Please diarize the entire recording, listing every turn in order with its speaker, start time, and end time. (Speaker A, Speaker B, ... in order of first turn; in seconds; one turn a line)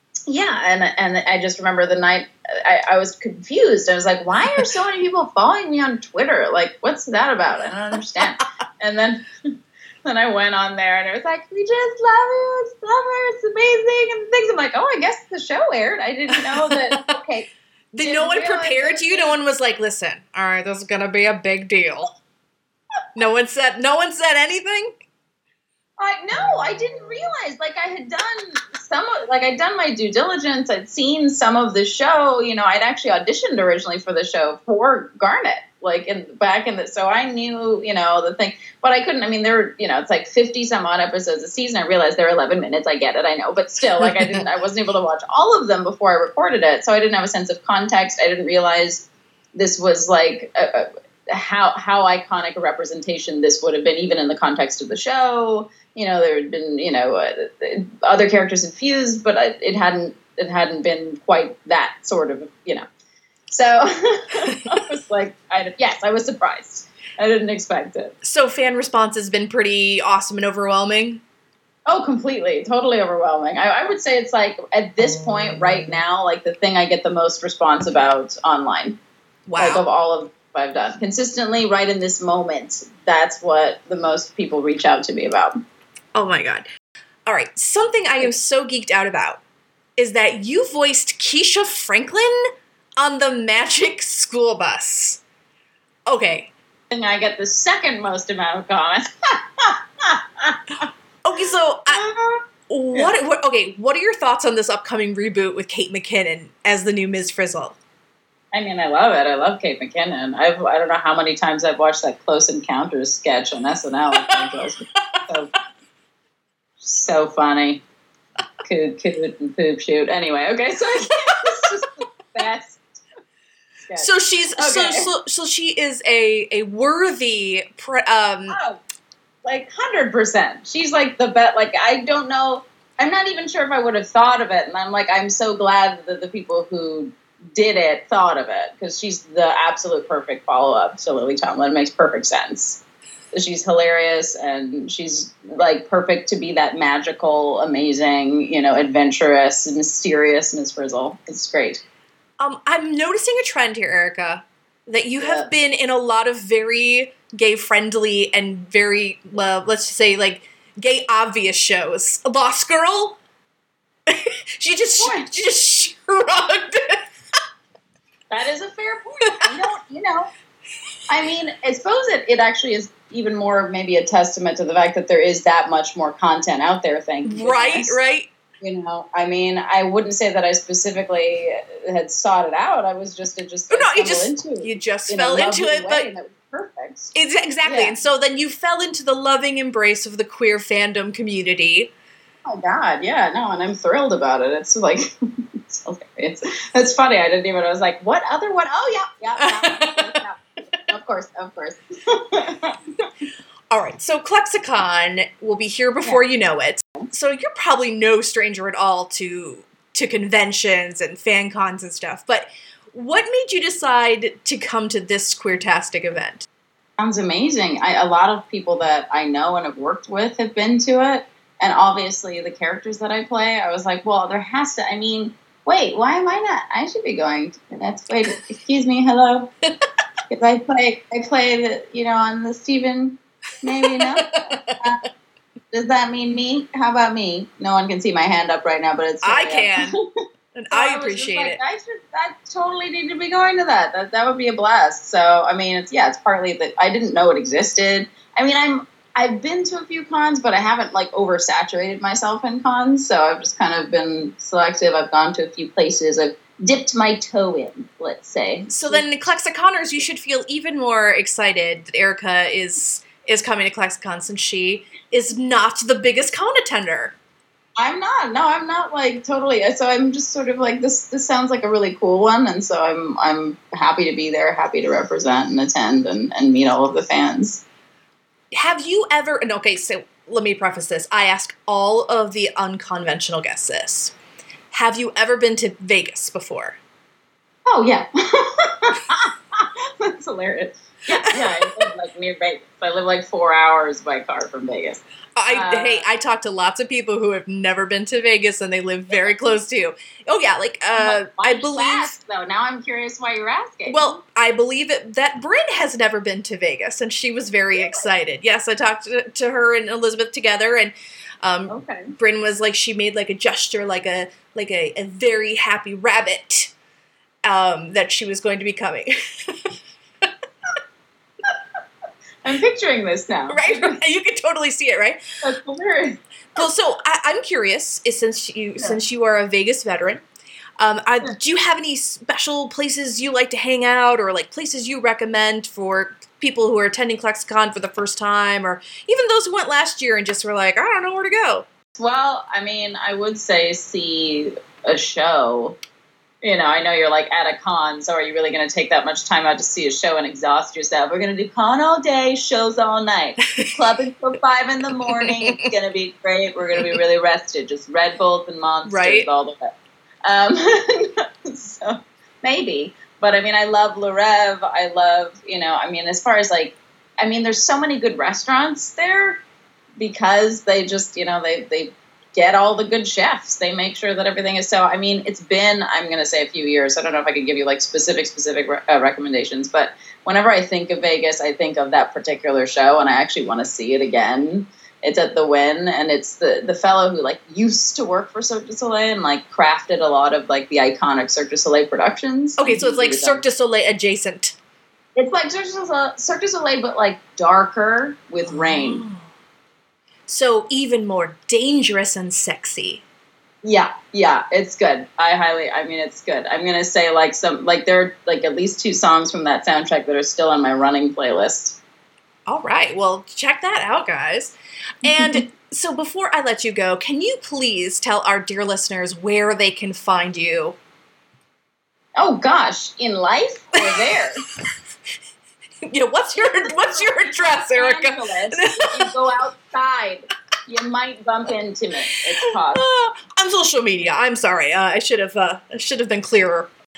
Speaker A: 0.3-9.3
Speaker A: 10.1-17.5
Speaker B: 16.7-17.1
Speaker B: 17.9-22.1
Speaker A: 18.0-19.4
Speaker B: 23.1-25.0
Speaker A: 26.0-62.9
Speaker A: 63.5-68.1
Speaker B: 68.2-71.2
Speaker A: 71.9-79.0
Speaker B: 79.5-79.8
Speaker A: 79.6-85.6
Speaker B: 86.1-86.7
Speaker B: 87.3-89.4
Speaker B: 90.0-95.2
Speaker B: 96.1-96.5
Speaker A: 96.9-100.9
Speaker B: 101.2-102.1
Speaker A: 101.9-103.1
Speaker B: 102.7-107.8
Speaker A: 108.5-115.5
Speaker B: 114.1-114.5
Speaker A: 116.8-117.8
Speaker A: 118.7-123.0
Speaker A: 123.9-125.1
Speaker B: 124.0-128.6
Speaker A: 128.5-128.8
Speaker A: 129.4-142.8
Speaker A: 143.3-151.8
Speaker B: 152.4-163.2
Speaker A: 155.2-155.5
Speaker B: 164.1-167.1
Speaker A: 165.0-165.3
Speaker A: 168.3-170.3
Speaker B: 169.2-169.5
Speaker A: 171.1-178.0
Speaker B: 177.2-178.3
Speaker A: 178.6-188.0
Speaker B: 183.7-186.1
Speaker B: 187.1-191.9
Speaker A: 192.5-203.1
Speaker B: 199.4-200.2
Speaker B: 203.7-216.5
Speaker A: 217.0-229.5
Speaker A: 230.3-235.1
Speaker B: 233.7-234.9
Speaker A: 235.7-240.1
Speaker B: 239.2-240.0
Speaker B: 240.5-241.6
Speaker A: 240.7-259.1
Speaker B: 258.7-267.2
Speaker A: 267.8-277.6
Speaker B: 278.5-284.1
Speaker B: 284.7-286.8
Speaker A: 287.7-296.0
Speaker B: 291.1-291.9
Speaker B: 295.4-302.2
Speaker A: 301.0-304.2
Speaker B: 303.9-316.7
Speaker A: 311.7-312.1
Speaker B: 317.4-319.7
Speaker A: 322.4-324.0
Speaker B: 323.5-325.2
Speaker A: 325.4-326.2
Speaker B: 326.6-330.2
Speaker B: 330.8-341.7
Speaker A: 342.0-345.8
Speaker A: 346.4-369.4
Speaker B: 353.6-353.8
Speaker B: 358.9-359.3
Speaker A: 370.0-393.4
Speaker B: 392.6-394.6
Speaker A: 395.2-399.0
Speaker B: 398.5-399.2
Speaker B: 400.3-403.0
Speaker A: 403.6-411.8
Speaker B: 412.5-420.8
Speaker A: 422.2-424.4
Speaker B: 425.9-429.1
Speaker A: 426.6-432.8
Speaker B: 432.7-436.7